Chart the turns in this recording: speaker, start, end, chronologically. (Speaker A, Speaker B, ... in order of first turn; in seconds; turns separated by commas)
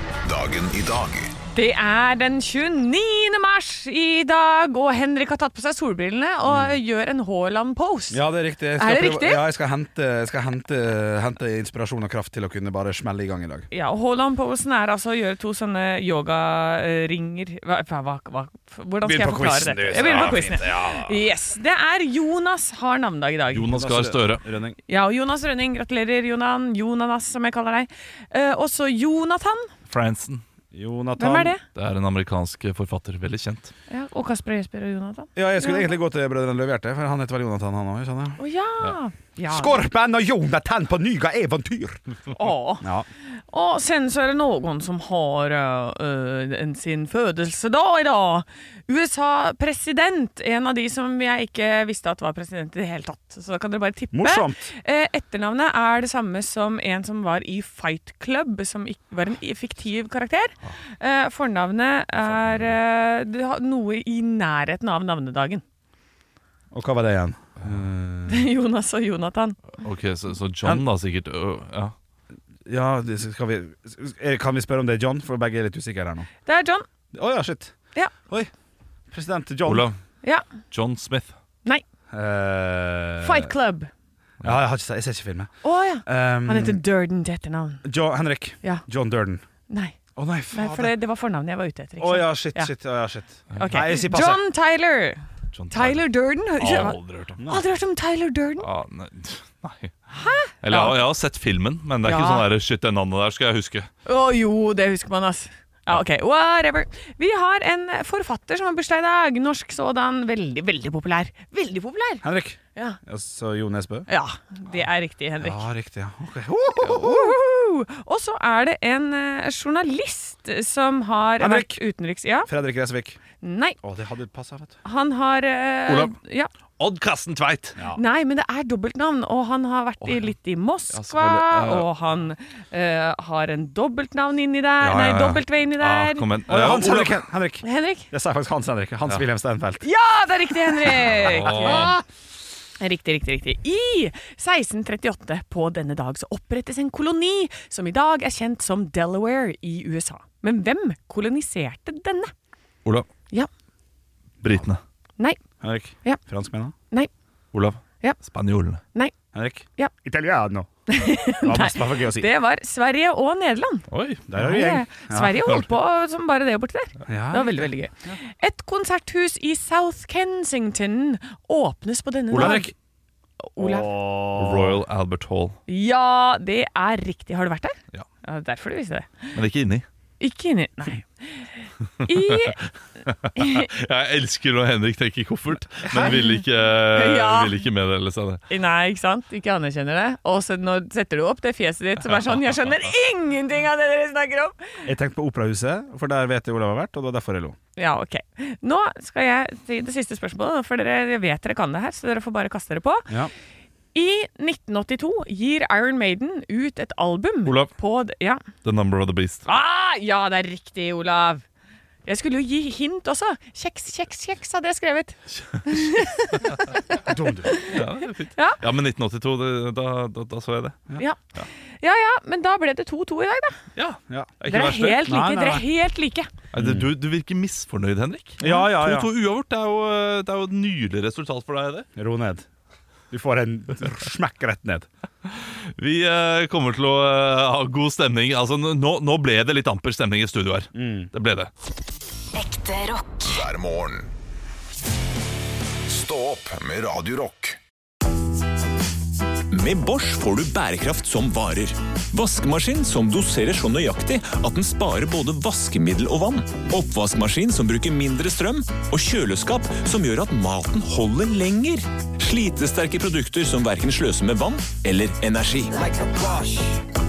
Speaker A: 0.2-1.3, Speaker B: 1.5-8.2, Speaker C: 6.5-6.8, Speaker C: 8.1-13.7, Speaker B: 8.8-9.4, Speaker B: 13.7-23.8, Speaker C: 19.0-21.2, Speaker D: 23.5-24.5, Speaker C: 23.7-24.8, Speaker B: 24.9-29.7, Speaker D: 29.9-30.4, Speaker C: 30.7-31.6, Speaker B: 31.2-31.6, Speaker D: 31.7-33.7, Speaker B: 33.9-35.9, Speaker C: 35.4-38.4, Speaker B: 38.4-39.8, Speaker C: 39.5-42.0, Speaker B: 42.3-42.9, Speaker C: 42.8-43.1, Speaker B: 43.5-65.6, Speaker C: 54.1-54.7, Speaker D: 62.2-62.8, Speaker C: 66.7-68.5, Speaker B: 68.3-69.6, Speaker D: 69.8-71.9, Speaker C: 72.7-76.3, Speaker B: 76.5-76.9, Speaker C: 77.1-78.5, Speaker C: 79.1-79.9, Speaker D: 79.7-80.0, Speaker D: 80.7-81.3, Speaker C: 82.1-83.5, Speaker B: 83.2-83.9, Speaker C: 84.4-85.5, Speaker B: 85.6-87.8, Speaker C: 86.0-86.8, Speaker C: 87.8-89.4, Speaker B: 89.7-90.0, Speaker C: 90.2-90.9, Speaker B: 90.5-92.7, Speaker C: 92.0-94.4, Speaker D: 93.5-93.9, Speaker B: 93.6-98.7, Speaker D: 95.5-96.1, Speaker D: 96.6-97.4, Speaker C: 97.4-97.6, Speaker D: 98.6-99.9, Speaker B: 100.1-101.0, Speaker D: 100.6-103.9, Speaker B: 102.0-102.5, Speaker B: 104.1-113.0, Speaker C: 112.2-114.1, Speaker B: 114.1-115.6, Speaker C: 115.4-117.4, Speaker B: 116.8-122.5, Speaker C: 121.4-121.8, Speaker C: 122.5-123.2, Speaker B: 123.4-123.8, Speaker C: 123.8-124.8, Speaker B: 124.8-126.5, Speaker D: 125.9-126.2, Speaker D: 126.8-127.8, Speaker B: 127.9-136.3, Speaker D: 130.0-130.3, Speaker D: 130.9-131.9, Speaker D: 134.8-137.2, Speaker C: 136.5-139.9, Speaker B: 137.6-138.1, Speaker B: 139.8-142.0, Speaker D: 141.1-141.9, Speaker C: 141.5-142.0, Speaker B: 142.8-152.3, Speaker D: 154.4-154.8, Speaker C: 155.6-156.7, Speaker D: 157.5-158.8, Speaker C: 159.3-160.7, Speaker B: 160.9-172.7, Speaker C: 161.4-162.3, Speaker D: 163.9-164.2, Speaker C: 164.3-165.4, Speaker C: 167.1-168.1, Speaker D: 172.3-172.7, Speaker C: 172.3-172.7, Speaker B: 173.5-173.9, Speaker C: 173.6-174.8, Speaker D: 174.4-175.6, Speaker B: 175.7-179.3, Speaker D: 179.3-179.9, Speaker B: 180.2-182.6, Speaker D: 182.0-182.5, Speaker D: 183.1-188.4, Speaker B: 183.3-183.7, Speaker C: 185.9-186.2, Speaker B: 185.9-186.4, Speaker B: 186.9-187.6, Speaker B: 188.5-194.6, Speaker C: 194.8-197.6, Speaker B: 197.8-203.1, Speaker B: 203.9-208.4, Speaker D: 207.4-207.7, Speaker D: 208.6-209.5, Speaker B: 209.5-211.4, Speaker B: 212.0-217.8, Speaker D: 215.4-215.9, Speaker C: 217.0-217.7, Speaker D: 217.6-220.8, Speaker B: 221.8-223.6, Speaker D: 223.8-225.1, Speaker C: 224.1-224.4, Speaker B: 224.5-226.3, Speaker C: 225.0-225.7, Speaker D: 226.5-231.9, Speaker C: 226.5-226.9, Speaker C: 228.4-229.1, Speaker B: 228.4-228.7, Speaker C: 232.0-232.5, Speaker C: 233.1-234.9, Speaker D: 235.3-241.5, Speaker C: 240.7-241.1, Speaker E: 242.3-243.2, Speaker A: 243.2-244.1, Speaker A: 245.9-247.6, Speaker E: 249.5-266.0, Speaker C: 266.0-266.5